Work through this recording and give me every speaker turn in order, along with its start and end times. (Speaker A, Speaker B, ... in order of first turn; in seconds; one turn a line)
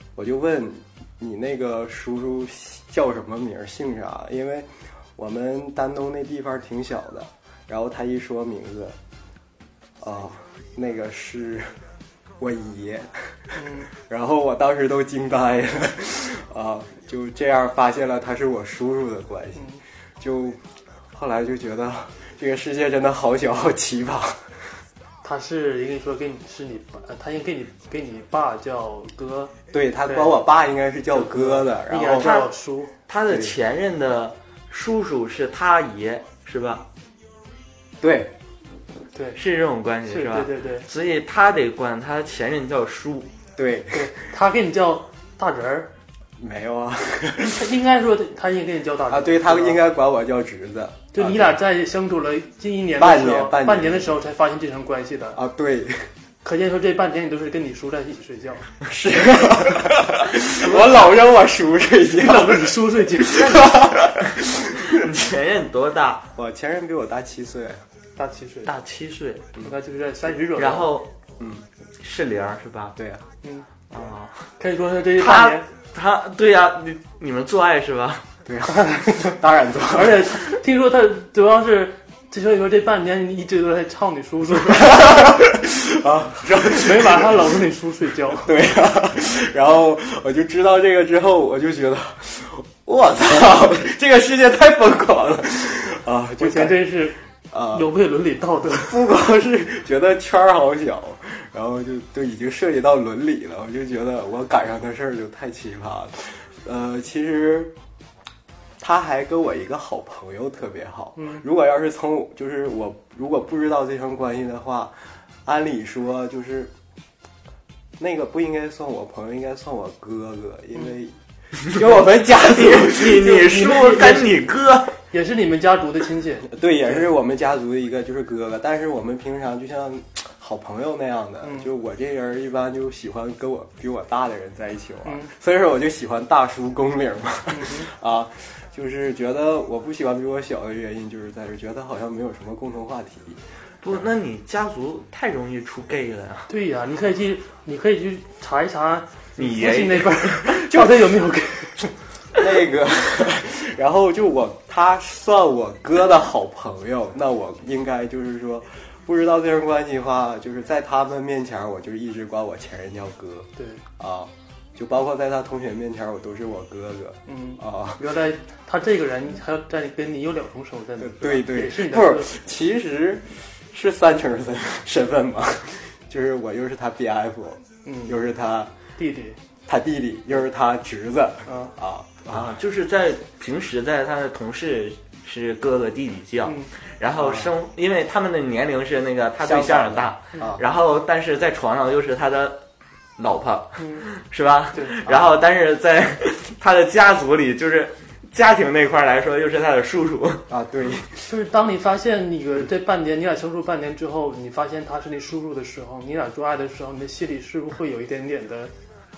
Speaker A: 0.1-9.0
Speaker A: 10.0-11.8
Speaker A: 12.4-20.6
Speaker B: 13.5-13.9
Speaker B: 19.5-19.8
Speaker A: 21.1-24.8
Speaker B: 25.2-29.5
Speaker A: 29.7-32.3
Speaker B: 30.1-30.4
Speaker B: 31.1-32.9
Speaker C: 32.1-32.5
Speaker C: 33.1-36.8
Speaker A: 33.3-33.5
Speaker A: 38.0-38.3
Speaker C: 39.4-43.3
Speaker B: 40.1-40.9
Speaker A: 43.5-44.2
Speaker B: 43.9-45.9
Speaker A: 46.4-47.6
Speaker B: 47.4-49.9
Speaker A: 49.1-51.6
Speaker B: 51.1-55.4
Speaker A: 53.0-54.2
Speaker A: 55.3-56.1
Speaker B: 56.4-58.6
Speaker A: 58.8-65.0
Speaker C: 60.6-61.0
Speaker B: 62.2-63.6
Speaker C: 63.3-64.3
Speaker C: 64.8-66.3
Speaker A: 66.3-67.8
Speaker B: 68.2-68.7
Speaker C: 68.7-69.5
Speaker B: 69.6-70.9
Speaker C: 70.5-71.1
Speaker A: 71.4-71.7
Speaker C: 72.0-73.0
Speaker A: 73.0-73.2
Speaker B: 73.4-73.7
Speaker C: 73.9-74.5
Speaker B: 74.6-75.7
Speaker C: 75.2-78.2
Speaker A: 78.4-80.5
Speaker B: 78.7-79.1
Speaker B: 79.9-85.2
Speaker A: 84.9-87.4
Speaker B: 86.6-88.5
Speaker A: 88.4-97.0
Speaker B: 96.4-97.2
Speaker A: 97.5-97.9
Speaker B: 97.7-99.0
Speaker A: 98.8-107.7
Speaker A: 108.8-116.7
Speaker B: 111.2-111.4
Speaker A: 118.0-123.5
Speaker C: 122.2-125.0
Speaker B: 123.2-124.4
Speaker B: 125.1-127.0
Speaker A: 126.5-143.4
Speaker B: 131.4-131.7
Speaker B: 135.0-135.3
Speaker B: 137.5-137.9
Speaker C: 143.8-146.5
Speaker B: 146.5-151.9
Speaker C: 149.4-150.6
Speaker A: 152.3-168.0
Speaker B: 163.6-163.8
Speaker B: 167.3-172.3
Speaker A: 171.0-178.7
Speaker B: 177.8-178.2
Speaker B: 179.0-179.4
Speaker A: 179.7-182.5
Speaker B: 181.4-181.7
Speaker C: 182.3-192.6
Speaker B: 186.4-186.7
Speaker A: 187.2-187.5
Speaker A: 189.4-190.6
Speaker C: 193.2-200.5
Speaker B: 193.8-194.1
Speaker A: 195.0-195.3
Speaker A: 200.5-201.2
Speaker B: 201.2-208.7